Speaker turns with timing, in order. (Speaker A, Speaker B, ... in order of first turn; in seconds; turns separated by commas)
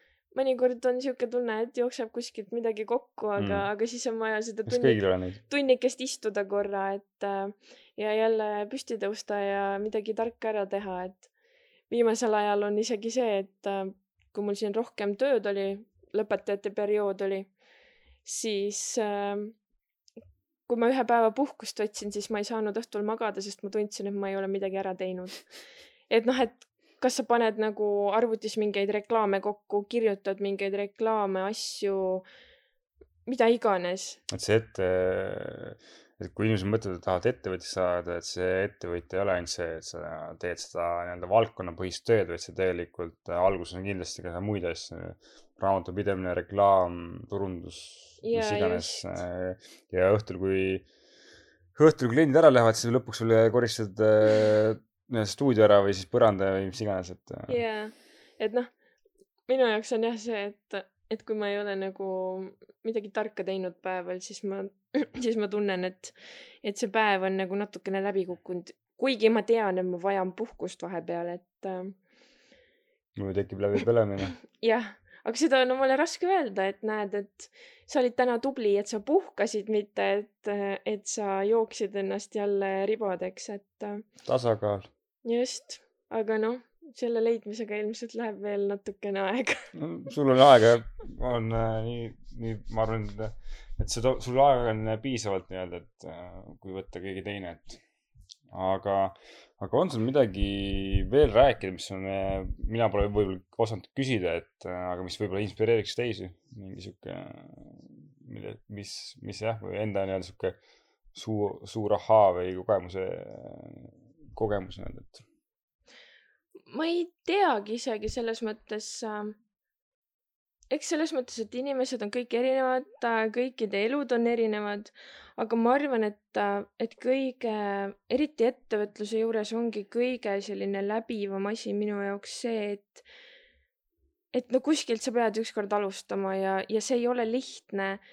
Speaker A: 0.3-11.3, Speaker B: 3.4-3.7, Speaker B: 4.7-5.4, Speaker A: 11.9-17.5, Speaker A: 18.2-19.5, Speaker A: 20.7-25.5, Speaker A: 26.1-32.2, Speaker A: 33.2-34.2, Speaker B: 34.3-50.9, Speaker A: 48.2-49.2, Speaker B: 51.7-57.6, Speaker A: 57.5-58.7, Speaker A: 59.5-71.9, Speaker B: 73.1-74.3, Speaker A: 74.5-84.0, Speaker B: 84.2-84.9, Speaker A: 85.2-89.7, Speaker B: 89.7-97.8, Speaker B: 98.5-110.6, Speaker B: 111.1-115.2, Speaker A: 116.7-119.3, Speaker A: 120.7-133.0, Speaker A: 134.3-138.0